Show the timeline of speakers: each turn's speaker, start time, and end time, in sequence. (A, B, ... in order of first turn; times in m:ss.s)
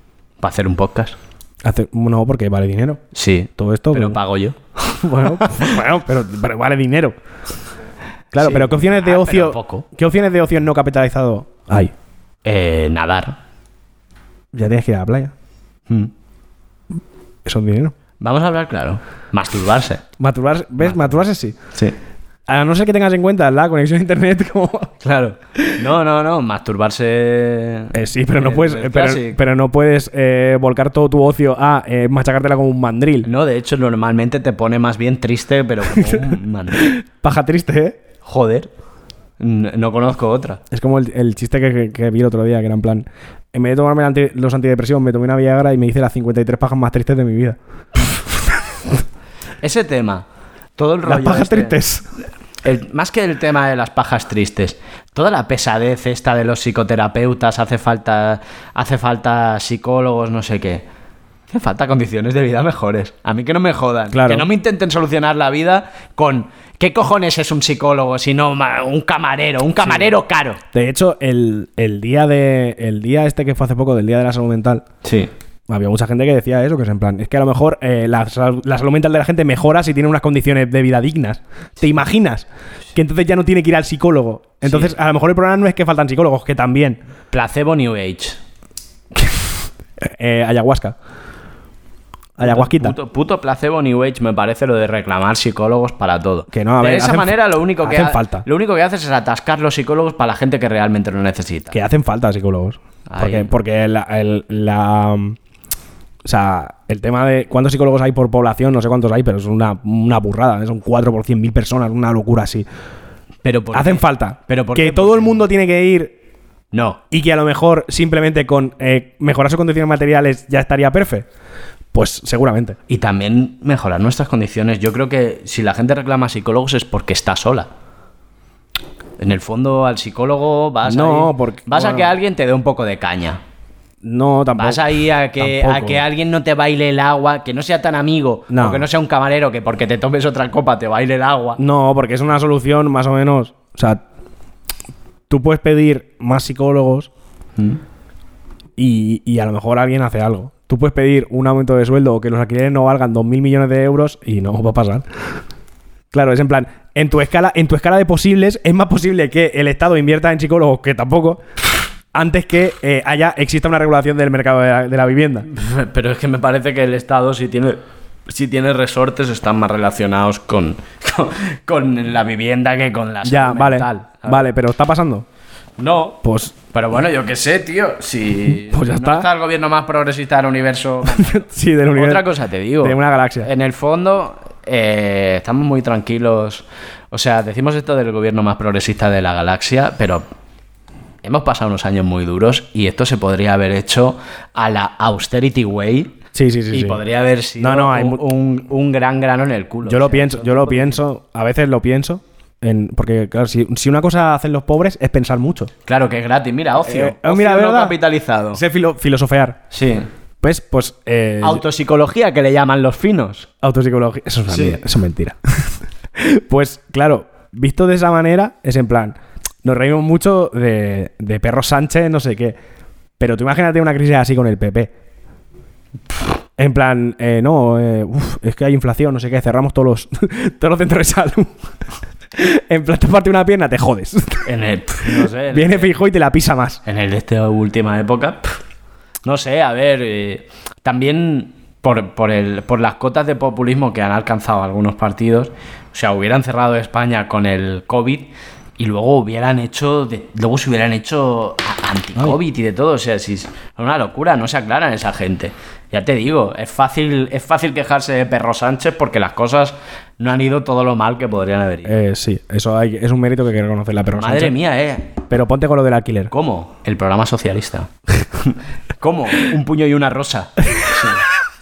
0:00.4-0:01.2 A
0:01.6-0:03.0 B
0:03.1-0:04.6 A
0:03.6-0:04.2 B
0:05.0-0:07.2 B
0:08.3-0:11.9 B
0:08.4-0:09.8 A
0:12.4-0:13.4 A
0:14.5-0:15.3 B
0:17.4-0:17.9 B
0:18.2-0:20.0 A
0:20.2-0:21.6 B
0:20.8-0:21.2 A
0:22.5-0:24.9 B
0:25.0-0:29.4 A
0:27.9-0:33.3 B
0:33.2-0:36.9 A
0:35.9-0:38.0 B
0:38.2-0:38.7 A
0:39.4-0:40.6 A
0:40.7-0:47.6 B
0:49.6-0:50.2 A
0:50.8-0:51.8 A
0:51.0-0:52.0 B
0:52.6-1:00.8 A
1:01.5-1:10.6 A
1:04.1-1:04.5 B
1:09.8-1:10.1 B
1:10.7-1:14.8 B
1:15.0-1:15.3 A
1:15.7-1:27.0 B
1:24.6-1:24.9 A
1:27.3-1:28.4 A
1:30.0-1:31.0 B
1:32.4-1:32.9 B
1:32.4-1:41.8 A
1:36.5-1:38.4 B
1:41.7-1:45.4 B
1:43.1-1:43.5 A
1:46.2-1:52.7 B
1:53.4-1:55.4 A
1:53.7-1:56.1 B
1:56.7-1:57.0 A
1:57.1-2:01.2 B
2:01.9-2:02.8 B
2:02.9-2:07.7 A
2:09.2-2:13.4 A
2:10.8-2:12.1 B
2:14.0-2:16.0 B
2:14.6-2:21.6 A
2:18.5-2:18.8 B
2:21.6-2:24.0 B
2:25.3-2:27.1 B
2:28.8-2:35.0 B
2:36.1-2:41.4 B
2:42.1-2:45.5 B
2:45.5-2:54.4 A
2:53.2-2:55.2 B
2:55.8-2:56.2 A
2:56.2-2:56.5 B
2:56.7-3:10.2 A
2:58.6-2:59.3 B
3:01.2-3:02.3 B
3:02.8-3:03.5 B
3:11.2-3:16.2 A
3:16.3-3:17.0 B
3:16.7-3:21.0 A
3:17.6-3:18.2 B
3:19.8-3:25.7 B
3:25.8-3:28.6 A
3:26.8-3:29.6 B
3:29.7-3:30.1 A
3:30.4-3:31.6 B
3:31.4-3:33.5 A
3:33.6-3:42.6 B
3:34.5-3:34.8 A
3:43.2-3:44.9 B
3:46.6-3:51.5 B
3:52.3-3:54.5 B
3:54.4-3:55.9 A
3:55.0-3:56.8 B
3:56.8-3:58.5 A
3:59.2-4:21.9 A
4:21.8-4:24.6 B
4:24.2-4:25.2 A
4:25.3-4:26.3 B
4:26.3-4:31.2 A